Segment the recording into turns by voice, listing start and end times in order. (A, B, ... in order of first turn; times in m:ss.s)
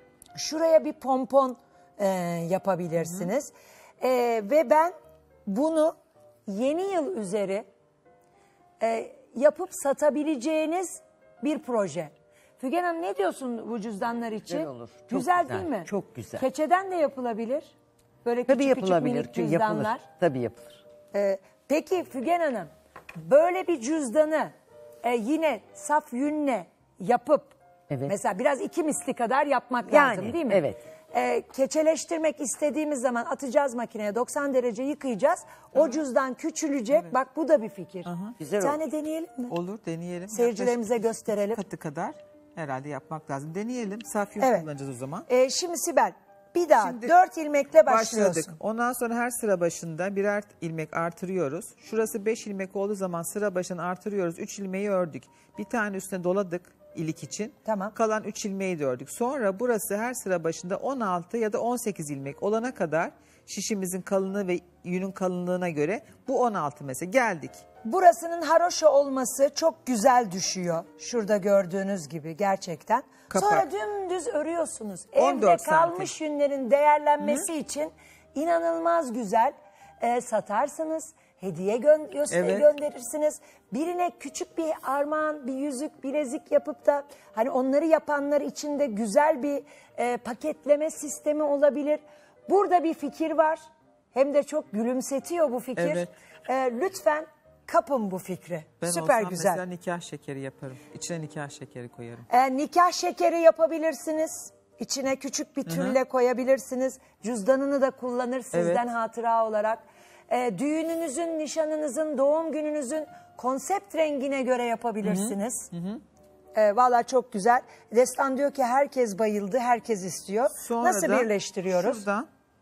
0:00.4-0:04.9 A
0:03.0-0:03.3 B
0:05.4-0:05.9 A
0:06.5-0:07.7 A
0:08.8-0:20.1 A
0:14.5-0:16.4 C
0:18.5-0:20.8 C
0:21.1-0:39.6 A
0:29.9-0:30.8 C
0:35.7-0:36.0 B
0:38.0-0:38.4 B
0:38.4-0:38.8 C
0:39.5-0:45.3 B
0:40.3-0:41.6 A
0:44.4-0:44.7 A
0:45.3-0:48.6 A
0:46.8-0:47.1 B
0:47.8-1:07.6 B
0:57.6-0:57.9 A
1:07.8-1:33.6 A
1:13.3-1:13.7 B
1:15.2-1:16.1 B
1:17.2-1:17.5 B
1:22.3-1:22.7 B
1:34.1-1:39.6 A
1:35.8-1:36.1 B
1:38.8-1:42.3 B
1:42.3-1:55.7 A
1:45.6-1:46.0 B
1:48.5-1:48.8 B
1:55.0-1:56.0 B
1:56.5-2:02.0 A
2:00.6-2:02.3 B